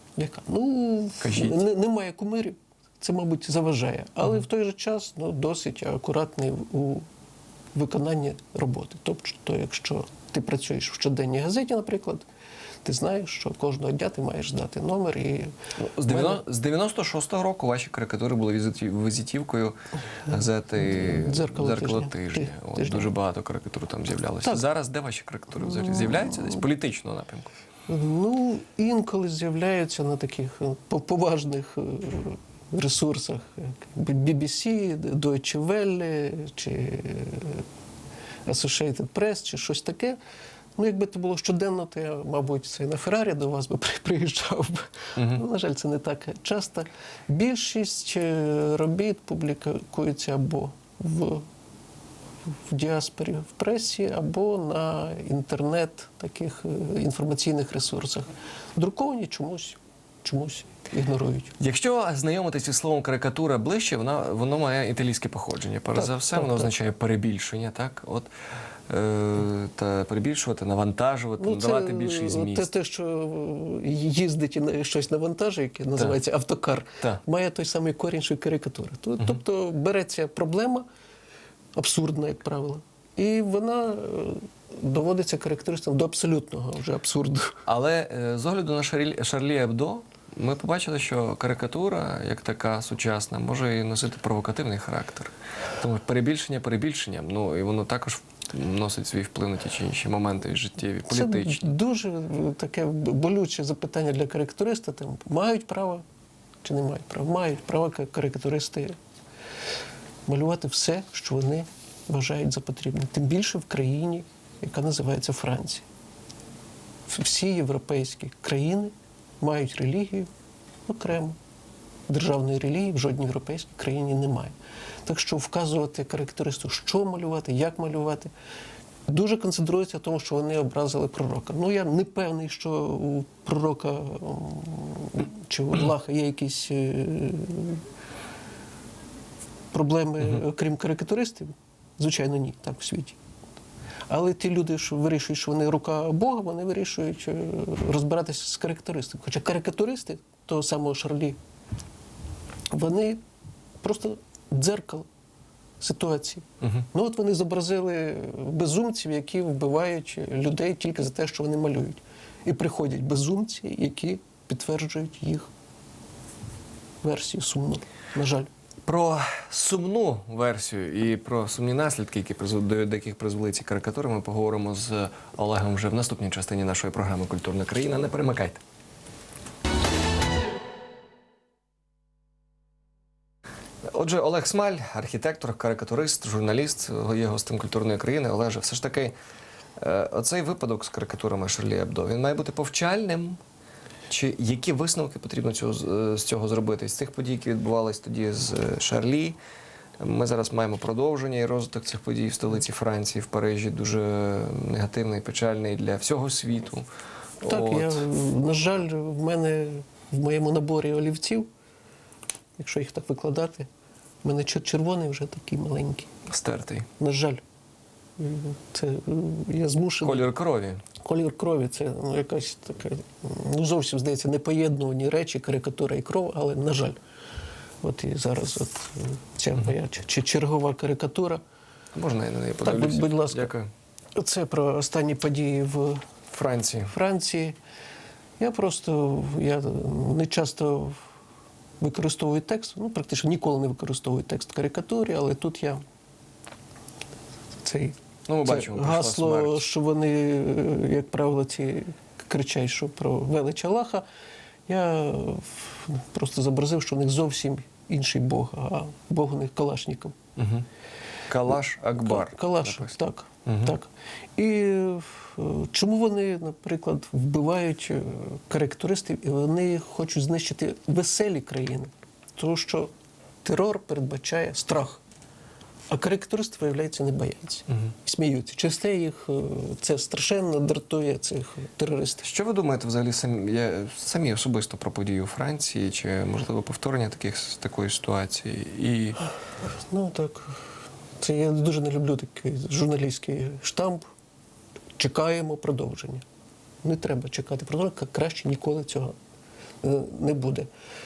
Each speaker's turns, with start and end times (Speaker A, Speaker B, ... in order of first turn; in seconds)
Speaker A: 0.1-7.0, 7.7-12.2, 12.8-16.4, 20.9-23.1, 25.7-26.4, 27.9-37.6, 38.5-40.2, 40.8-51.5, 52.7-61.5, 65.9-66.7, 71.4-80.8, 81.7-87.6, 101.1-106.0, 106.6-108.9, 110.3-115.8, 117.1-120.3, 120.9-121.4, 122.1-124.5, 125.0-128.3, 129.1-137.8, 139.7-143.2, 144.1-151.4, 152.7-153.2, 153.8-155.1, 155.8-165.5, 167.0-168.5, 207.4-211.5, 212.6-213.7, 214.2-216.1, 217.0-217.4, 218.2-220.3, 221.0-227.0, 227.8-231.4, 232.6-233.5, 234.1-236.0, 236.9-237.6, 238.4-241.0, 241.8-245.8, 247.6-254.0, 254.7-260.1, 262.0-272.9, 273.4-275.0, 275.9-282.2, 289.9-290.6, 291.2-294.0, 295.0-296.2, 296.8-299.1, 299.8-300.7
Speaker B: 1.2-1.6, 15.8-19.7, 20.3-27.5, 45.1-45.4, 61.6-68.3, 68.9-72.7, 87.7-101.7, 168.8-178.6, 183.9-189.1, 189.8-193.4, 194.1-199.4, 200.0-206.8, 207.4-208.1, 216.3-216.9, 220.0-220.8, 231.9-233.7, 236.3-236.9, 248.3-249.6, 260.4-260.6, 261.3-263.7, 282.2-289.2